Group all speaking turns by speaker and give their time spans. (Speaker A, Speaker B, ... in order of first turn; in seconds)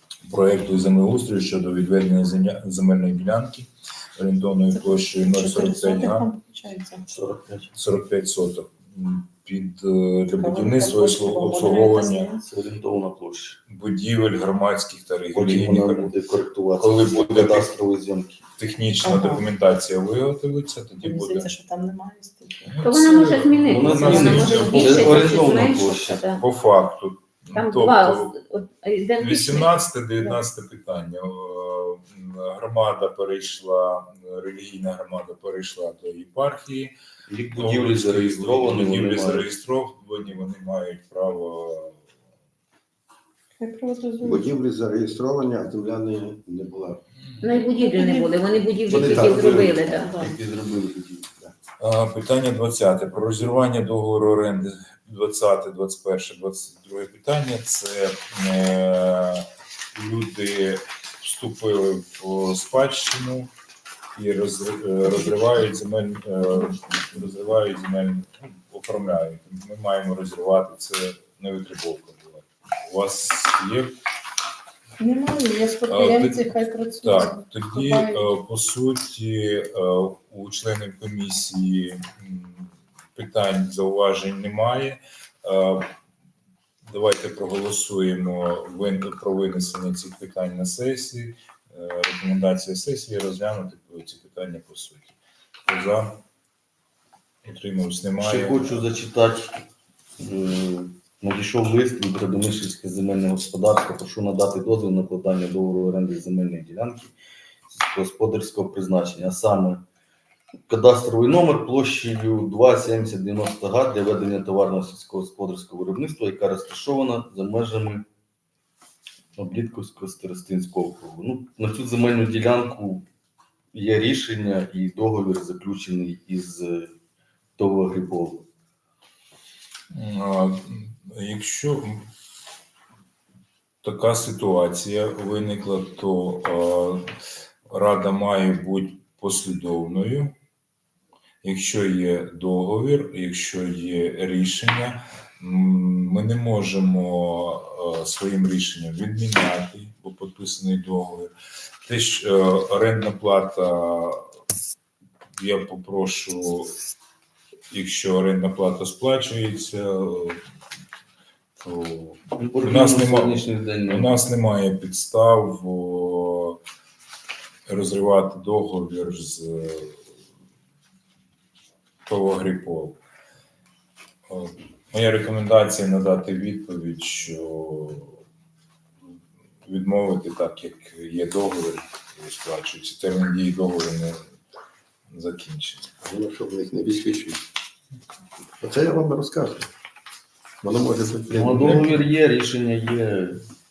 Speaker A: 0.2-6.3, 7.7-12.3, 13.7-16.1, 16.8-17.7, 18.6-21.5, 22.6-25.5, 26.3-28.4, 29.2-36.9, 37.5-42.0, 51.8-63.5, 64.2-74.0, 75.9-85.9, 86.9-96.2, 97.4-98.9, 129.9-132.1, 133.8-137.1, 137.7-140.3, 141.4-151.3, 151.9-154.2, 155.4-156.7, 157.7-160.4, 161.6-166.6, 167.7-170.0, 172.1-173.0, 174.3-178.2, 179.7-184.2, 185.1-185.9
Speaker B: 4.7-7.0, 10.3-12.4, 19.0-19.5, 21.0-22.8, 24.0-24.5, 43.6-44.5, 47.4-48.3, 49.2-50.4, 75.0-78.3
Speaker C: 7.0-7.7, 12.3-13.6, 15.3-18.4, 23.6-26.2, 37.3-39.5, 48.9-51.3, 98.2-99.6, 100.2-107.2, 107.7-109.8, 110.7-118.1, 119.4-123.0, 123.7-126.9, 127.6-128.5, 162.4-164.2, 191.3-193.4
Speaker D: 22.8-26.4, 27.5-30.3, 47.4-50.1
Speaker E: 44.3-47.0, 48.9-50.0, 186.0-187.4, 188.6-189.7, 190.6-192.0